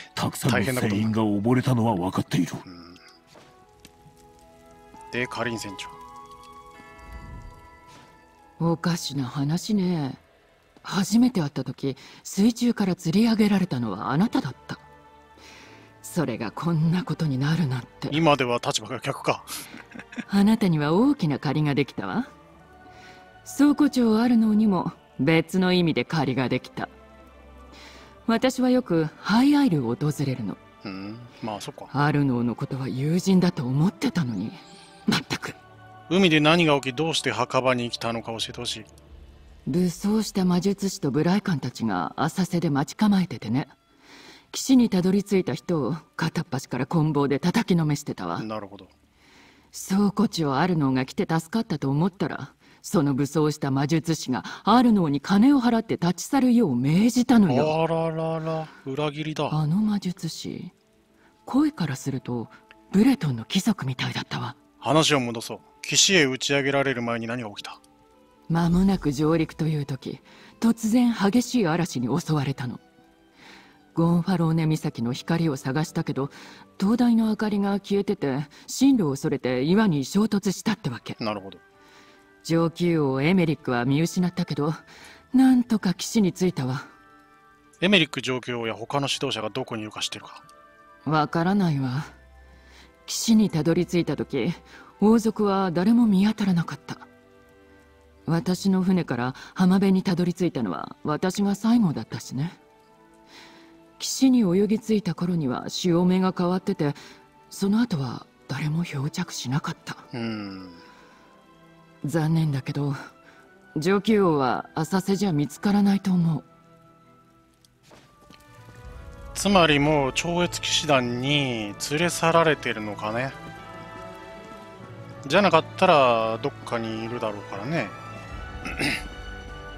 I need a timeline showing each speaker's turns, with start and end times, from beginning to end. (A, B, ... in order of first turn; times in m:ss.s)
0:00.1-0:02.6 A
0:00.5-0:01.1 B
0:02.6-0:03.0 B
0:05.1-0:06.0 B
0:08.6-0:10.2 C
0:10.8-0:14.8 C
0:16.0-0:18.2 C
0:18.1-0:19.5 B
0:20.3-0:22.3 C
0:23.4-0:26.9 C
0:28.2-0:30.6 C
0:30.8-0:31.9 B
0:31.9-0:35.6 C
0:36.1-0:38.9 B
0:39.6-0:43.7 C
0:44.5-0:48.4 C
0:48.4-0:48.9 B
0:49.7-0:57.8 C
0:57.5-0:59.6 B
0:59.5-1:00.7 C
1:01.4-1:04.6 C
1:04.8-1:07.8 B
1:08.5-1:12.8 C
1:13.9-1:21.2 C
1:21.2-1:21.6 B
1:22.4-1:26.9 C
1:27.8-1:30.4 B
1:31.0-1:32.1 C
1:33.0-1:37.0 C
1:38.3-1:42.6 C
1:44.0-1:47.0 C
1:47.5-1:50.0 C
1:50.1-1:50.8 B
1:52.0-1:53.0 C
1:53.7-1:56.4 C
1:59.3-2:03.4 B
2:05.2-2:08.0 B
2:08.6-2:09.0 B